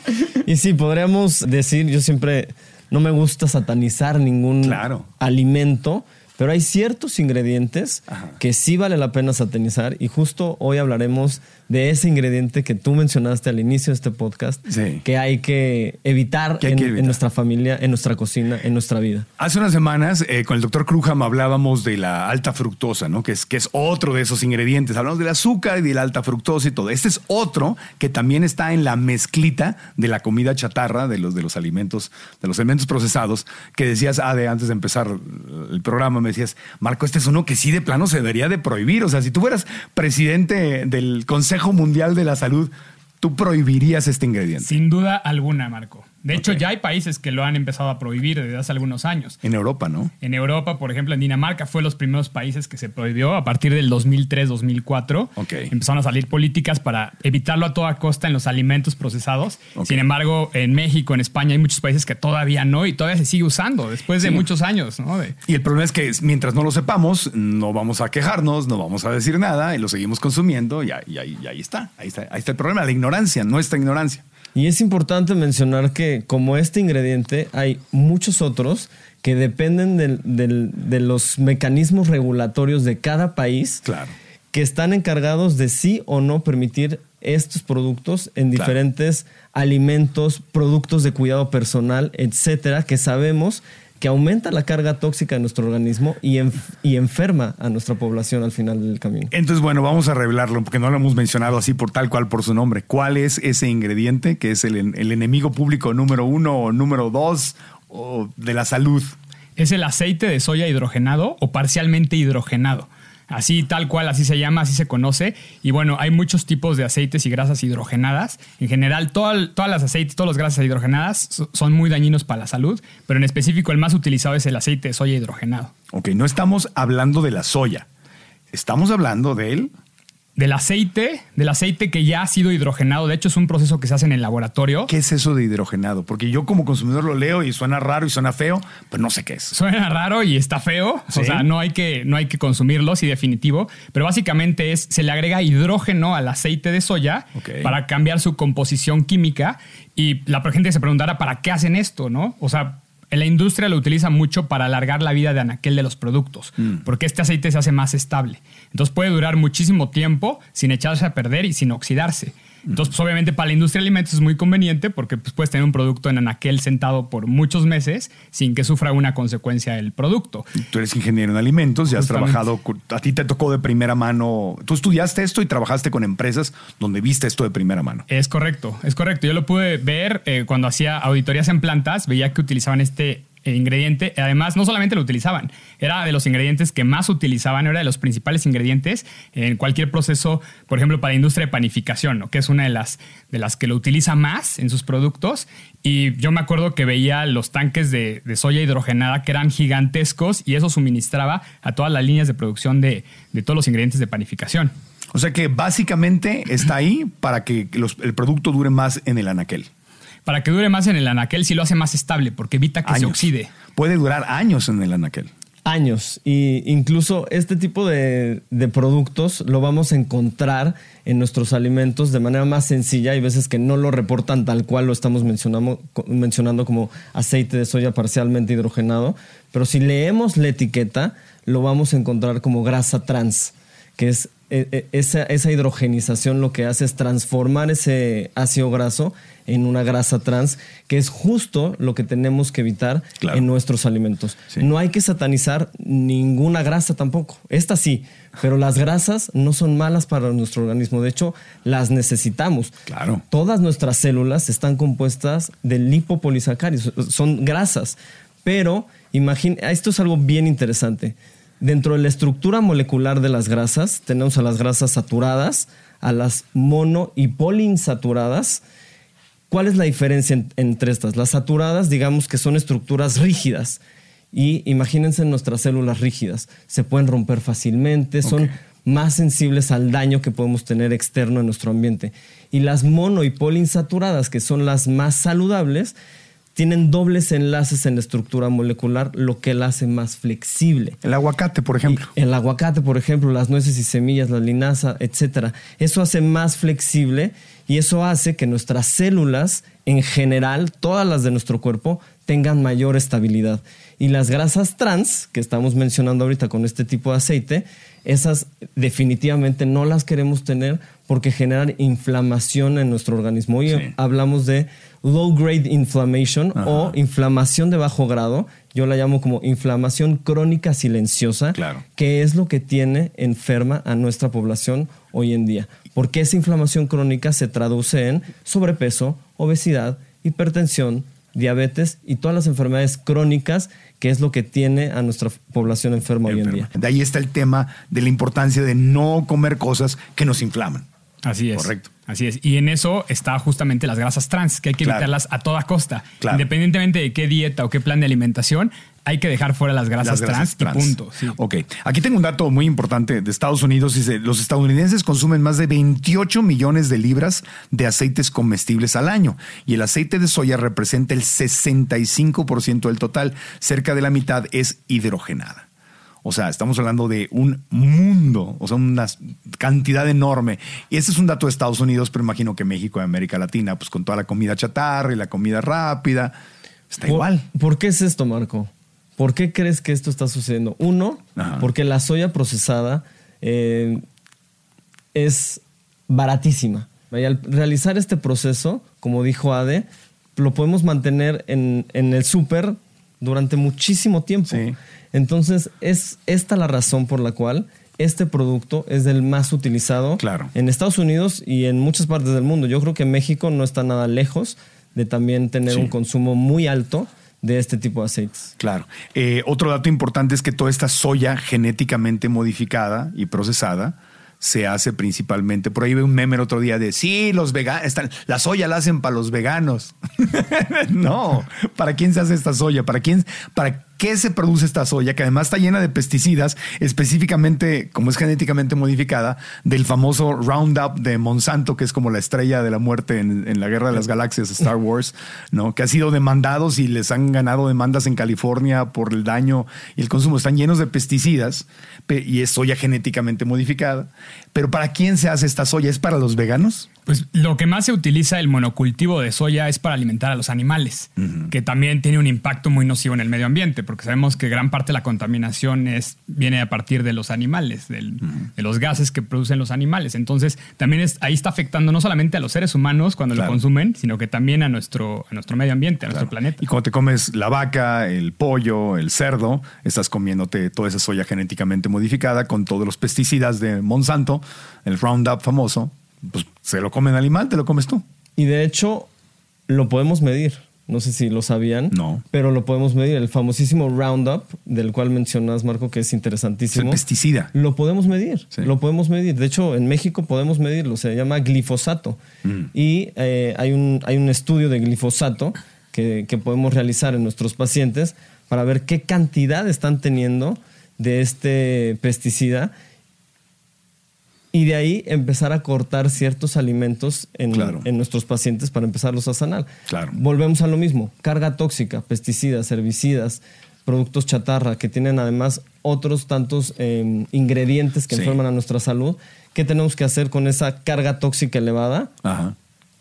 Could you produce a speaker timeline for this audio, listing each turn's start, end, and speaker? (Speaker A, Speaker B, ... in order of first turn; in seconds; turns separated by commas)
Speaker A: 0.4-19.3, Speaker B: 4.6-5.1, Speaker B: 8.1-8.3, Speaker B: 14.7-15.0, Speaker B: 16.6-17.2, Speaker B: 19.4-44.7, Speaker C: 44.6-49.4, Speaker B: 46.4-46.6, Speaker B: 49.4-50.1, Speaker C: 50.2-65.4, Speaker B: 55.4-55.7, Speaker B: 59.8-60.0, Speaker B: 64.2-64.5, Speaker B: 65.5-74.2, Speaker A: 74.5-83.8, Speaker B: 83.8-84.1, Speaker A: 84.5-99.3, Speaker B: 99.3-109.1, Speaker C: 109.6-125.7, Speaker B: 125.9-127.9, Speaker B: 128.5-129.7, Speaker C: 130.4-134.9, Speaker B: 134.9-139.6, Speaker C: 139.5-170.5, Speaker B: 141.1-141.5, Speaker B: 147.4-147.7, Speaker B: 170.6-178.1, Speaker C: 171.9-172.4, Speaker C: 178.1-204.7, Speaker B: 205.1-209.7, Speaker C: 210.3-213.5, Speaker B: 212.8-215.3, Speaker A: 215.7-252.7, Speaker B: 252.9-253.2, Speaker A: 253.3-268.6, Speaker A: 269.5-273.8, Speaker A: 274.3-285.9, Speaker B: 278.2-278.5, Speaker A: 286.6-291.0, Speaker B: 291.0-292.1, Speaker A: 291.9-336.7, Speaker B: 316.6-316.9, Speaker B: 321.5-321.8, Speaker B: 336.3-340.9, Speaker C: 341.2-351.4, Speaker B: 341.5-341.9, Speaker B: 344.8-345.1, Speaker B: 346.2-346.5, Speaker B: 350.0-365.7, Speaker B: 366.2-376.4, Speaker B: 376.9-377.4, Speaker A: 377.0-384.0, Speaker B: 381.4-381.7, Speaker A: 385.1-408.5, Speaker B: 394.5-394.8, Speaker B: 400.2-400.5, Speaker B: 408.6-446.9, Speaker C: 447.1-466.6, Speaker B: 451.2-451.5, Speaker B: 466.1-478.0, Speaker A: 478.4-479.1, Speaker A: 479.7-487.0, Speaker B: 481.9-482.2, Speaker B: 486.7-487.5, Speaker A: 487.5-492.2, Speaker B: 492.4-492.7, Speaker A: 492.7-502.7, Speaker A: 504.5-522.1, Speaker B: 507.5-507.9, Speaker B: 509.9-510.2, Speaker B: 518.1-518.4, Speaker B: 522.2-522.5